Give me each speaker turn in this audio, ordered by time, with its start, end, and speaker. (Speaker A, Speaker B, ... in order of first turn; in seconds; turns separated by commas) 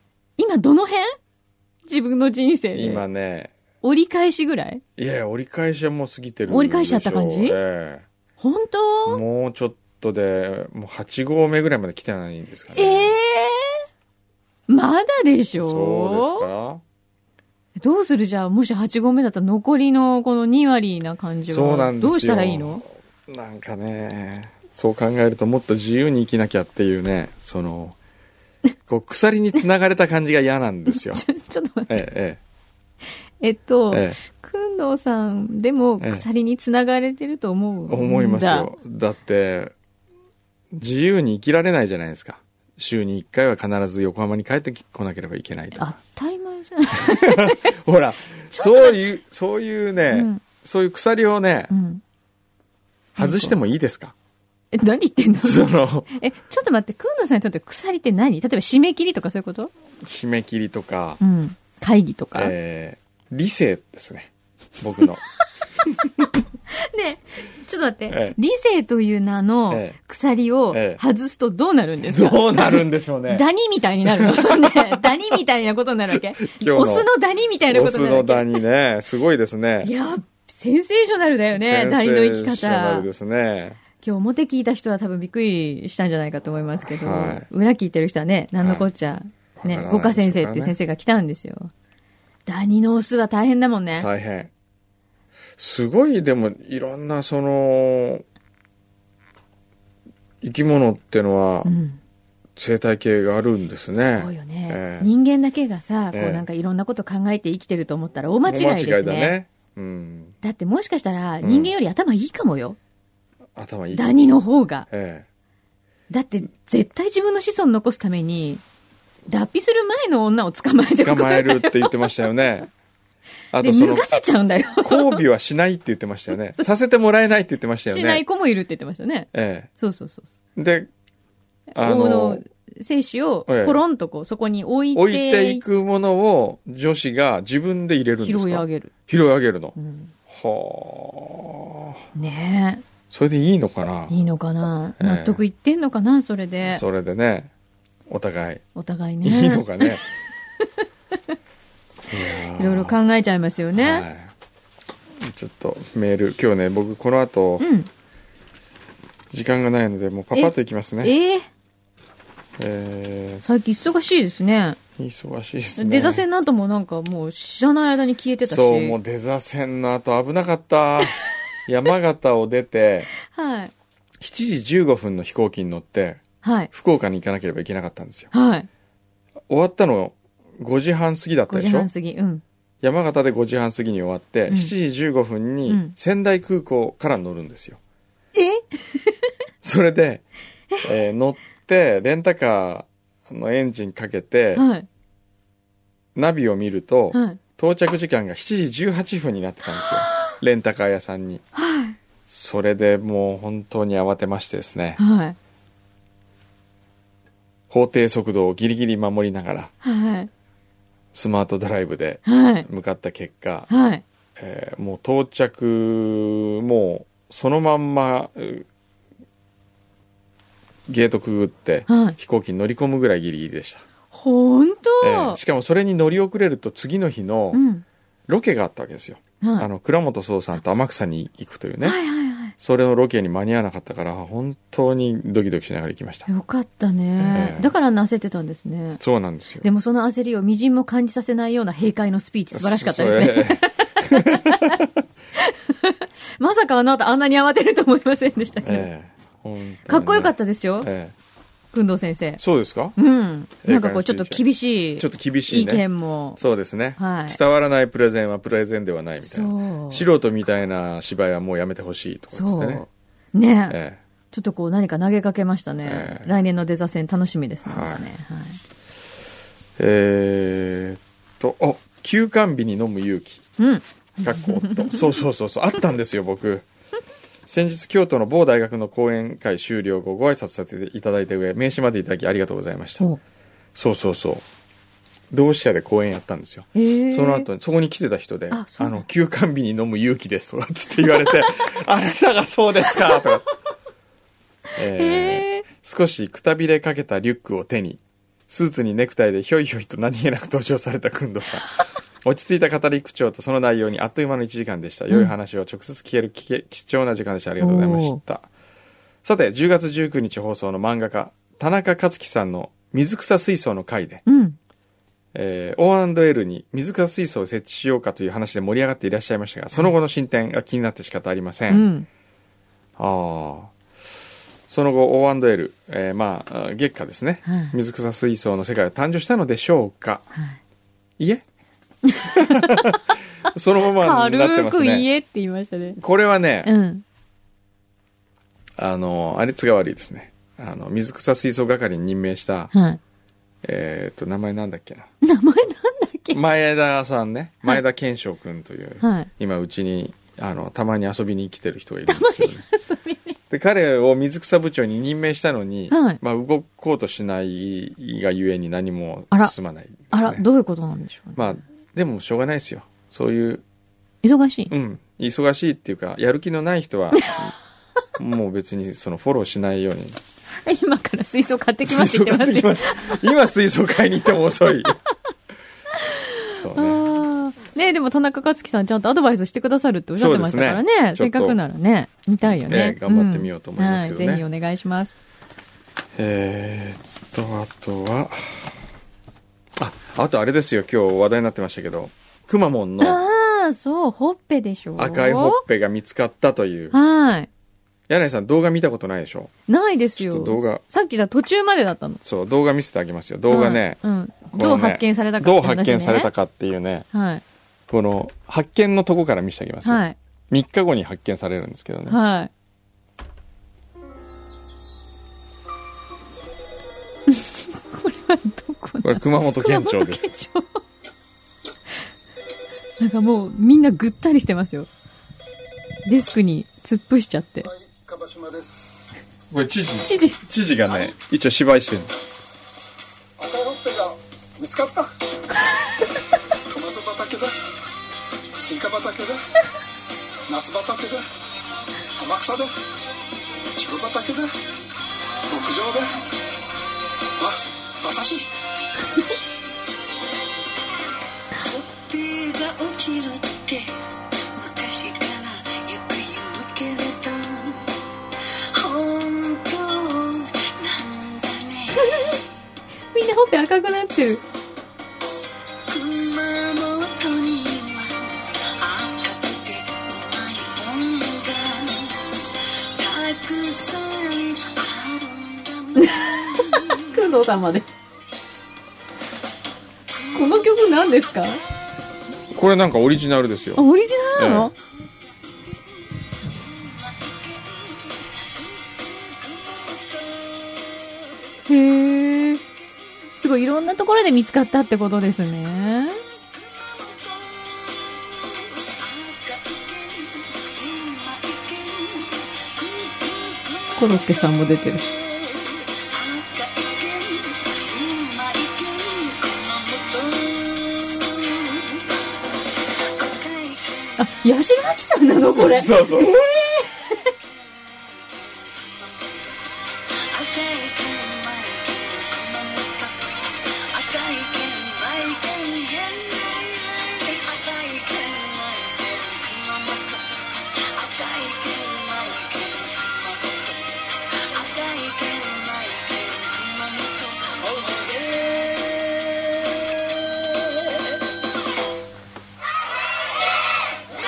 Speaker A: 0.4-1.1, Speaker A: 1.9-3.0, Speaker B: 2.7-3.5, Speaker A: 3.8-4.8, Speaker B: 5.0-8.1, Speaker A: 6.5-7.6, Speaker A: 8.4-9.2, Speaker B: 9.1-13.1, Speaker A: 12.7-13.8, Speaker A: 14.7-16.5, Speaker B: 15.6-16.8, Speaker A: 17.8-22.8, Speaker B: 21.5-27.9, Speaker B: 28.9-31.2, Speaker A: 30.9-32.1, Speaker B: 31.9-32.4, Speaker A: 33.4-38.7, Speaker B: 33.9-34.2, Speaker B: 37.9-39.7, Speaker B: 40.7-45.9, Speaker A: 45.8-47.8, Speaker B: 47.0-51.7, Speaker A: 48.5-49.0, Speaker A: 50.1-50.4, Speaker A: 51.7-52.0, Speaker B: 53.1-54.1, Speaker A: 53.2-53.6, Speaker A: 54.7-59.7, Speaker B: 55.4-56.1, Speaker B: 60.0-61.2, Speaker A: 61.2-62.5, Speaker B: 62.3-65.2, Speaker A: 66.7-78.6, Speaker B: 68.1-68.4, Speaker B: 69.7-70.0, Speaker B: 70.7-71.0, Speaker B: 72.0-73.4, Speaker B: 74.0-75.1, Speaker B: 76.1-77.1, Speaker B: 77.7-79.9, Speaker A: 79.8-83.1, Speaker B: 81.5-83.8, Speaker A: 84.0-91.7, Speaker B: 86.9-87.5, Speaker B: 88.6-88.9, Speaker B: 89.6-90.7, Speaker A: 92.5-94.1, Speaker B: 94.0-94.5, Speaker B: 95.6-98.2, Speaker B: 100.4-101.7, Speaker A: 101.6-102.0, Speaker B: 102.6-105.1, Speaker A: 103.9-109.3, Speaker B: 106.1-106.4, Speaker B: 108.5-110.3, Speaker A: 110.4-112.8, Speaker B: 111.4-111.7, Speaker B: 113.5-114.3, Speaker A: 113.9-114.9, Speaker B: 114.9-115.3, Speaker A: 116.1-118.6, Speaker A: 119.3-122.1, Speaker B: 121.0-122.7, Speaker B: 123.5-124.1, Speaker A: 123.6-125.2, Speaker B: 124.8-128.2, Speaker A: 127.8-130.3, Speaker B: 129.3-129.7, Speaker B: 130.6-130.9, Speaker B: 131.7-132.4, Speaker A: 131.8-135.6, Speaker B: 133.5-133.8, Speaker B: 134.9-139.8, Speaker A: 138.2-138.9, Speaker A: 139.8-140.1, Speaker B: 140.3-141.9, Speaker A: 142.1-142.8, Speaker B: 143.1-144.1, Speaker A: 144.1-146.8, Speaker B: 145.0-145.4, Speaker B: 146.6-147.5, Speaker B: 148.1-148.6, Speaker A: 148.7-150.1, Speaker B: 149.2-150.0, Speaker B: 152.1-152.9, Speaker A: 152.3-154.1, Speaker B: 153.8-154.3, Speaker B: 155.2-157.7, Speaker A: 157.6-157.9, Speaker B: 159.3-161.1, Speaker A: 160.3-161.4, Speaker B: 162.6-163.4, Speaker A: 163.4-164.8, Speaker B: 165.0-166.2, Speaker A: 165.8-168.9, Speaker B: 168.5-173.1, Speaker A: 173.2-173.7, Speaker B: 174.2-176.2, Speaker A: 176.4-176.7, Speaker B: 176.7-178.3, Speaker A: 178.3-178.7, Speaker B: 179.5-181.9, Speaker A: 181.5-182.4, Speaker B: 182.8-187.8, Speaker A: 185.7-185.9, Speaker A: 188.3-189.2, Speaker B: 189.6-190.2, Speaker B: 190.8-194.6, Speaker A: 194.5-194.9, Speaker B: 196.1-201.4, Speaker A: 197.1-197.4, Speaker A: 201.5-202.0, Speaker B: 202.3-205.0, Speaker A: 205.0-205.3, Speaker B: 207.7-209.7, Speaker A: 209.8-210.3, Speaker B: 211.1-213.7, Speaker A: 212.2-212.7, Speaker A: 213.7-214.0, Speaker B: 214.4-218.7, Speaker B: 220.9-223.8, Speaker A: 221.9-222.2, Speaker A: 224.1-225.4, Speaker B: 225.0-227.6, Speaker A: 227.5-227.8, Speaker B: 228.3-232.0, Speaker A: 229.4-229.7, Speaker A: 231.8-232.5, Speaker B: 232.6-236.3, Speaker A: 236.3-239.0, Speaker B: 237.2-237.7, Speaker B: 239.0-239.7, Speaker A: 239.6-244.8, Speaker B: 242.5-244.8, Speaker A: 245.3-248.9, Speaker B: 248.6-251.1, Speaker A: 249.9-250.9, Speaker A: 251.7-252.4, Speaker B: 252.4-253.0, Speaker A: 252.9-256.4, Speaker B: 253.6-254.4, Speaker B: 255.0-255.8, Speaker B: 256.4-262.8, Speaker A: 257.0-257.4, Speaker A: 259.2-260.1, Speaker A: 262.3-263.8, Speaker B: 263.7-264.0, Speaker A: 264.3-268.6, Speaker B: 265.8-266.3, Speaker B: 267.6-268.1, Speaker B: 269.8-273.4, Speaker A: 273.6-275.0, Speaker B: 274.2-276.6, Speaker B: 277.5-283.1, Speaker B: 283.7-284.4, Speaker B: 285.3-293.5, Speaker A: 286.7-287.5, Speaker A: 288.5-289.0, Speaker B: 294.8-308.4, Speaker A: 294.9-295.6, Speaker A: 307.6-308.2, Speaker B: 309.2-314.2, Speaker A: 314.2-314.6, Speaker B: 315.3-321.9, Speaker A: 321.7-322.1, Speaker B: 323.0-323.7, Speaker B: 324.7-330.3, Speaker A: 327.4-327.8, Speaker B: 331.2-331.4, Speaker A: 332.1-332.9, Speaker B: 332.3-332.9, Speaker B: 333.5-335.1, Speaker A: 333.9-336.0, Speaker B: 336.0-336.7, Speaker A: 336.6-337.0, Speaker B: 338.8-342.7, Speaker A: 342.7-343.0, Speaker B: 343.6-345.1, Speaker A: 345.2-346.4, Speaker B: 346.3-352.6, Speaker A: 349.0-349.3, Speaker A: 352.1-353.4, Speaker B: 353.5-360.4, Speaker A: 355.9-356.2, Speaker A: 360.1-361.6, Speaker B: 361.4-363.6, Speaker A: 364.2-364.7, Speaker B: 364.7-367.5, Speaker A: 367.1-367.5, Speaker B: 368.2-370.2, Speaker A: 370.5-373.2, Speaker B: 371.8-374.9, Speaker A: 376.0-385.1, Speaker B: 376.5-377.1, Speaker B: 380.2-381.6, Speaker B: 382.4-384.4, Speaker B: 386.2-388.7, Speaker B: 389.8-393.2, Speaker A: 393.0-395.6, Speaker B: 395.0-396.9, Speaker A: 396.9-397.5, Speaker B: 398.1-399.5, Speaker A: 399.7-402.2, Speaker B: 400.2-400.8, Speaker B: 402.2-404.0, Speaker A: 403.5-406.3, Speaker B: 404.5-407.0, Speaker A: 407.1-407.4, Speaker B: 407.9-412.2, Speaker A: 409.8-410.1, Speaker A: 412.1-412.5, Speaker A: 417.3-420.8, Speaker B: 419.0-420.3, Speaker A: 423.0-424.9, Speaker A: 426.0-427.7, Speaker C: 428.0-428.9, Speaker B: 429.5-432.1, Speaker A: 430.0-430.4, Speaker C: 433.4-435.1, Speaker C: 436.7-437.5, Speaker C: 438.6-439.4, Speaker C: 440.5-441.2, Speaker C: 442.2-442.7, Speaker C: 443.7-444.5, Speaker C: 445.5-446.1, Speaker C: 447.4-448.5, Speaker D: 451.7-453.9, Speaker D: 454.5-457.8, Speaker D: 458.7-461.9, Speaker A: 462.0-462.4, Speaker A: 463.1-464.4, Speaker D: 465.9-472.2, Speaker D: 472.9-476.7, Speaker A: 475.9-477.9, Speaker A: 480.3-481.6, Speaker B: 482.5-483.8, Speaker A: 483.8-484.7, Speaker B: 484.4-484.7, Speaker D: 487.1-487.3, Speaker D: 489.0-490.6, Speaker A: 491.6-492.6, Speaker A: 493.4-496.2, Speaker D: 496.6-498.0, Speaker D: 498.8-503.8, Speaker A: 503.9-505.1, Speaker D: 505.6-511.9, Speaker D: 513.2-514.1, Speaker A: 514.2-517.3, Speaker B: 515.6-516.5, Speaker D: 517.8-519.1, Speaker D: 520.2-523.1, Speaker D: 523.9-533.9, Speaker D: 534.4-538.5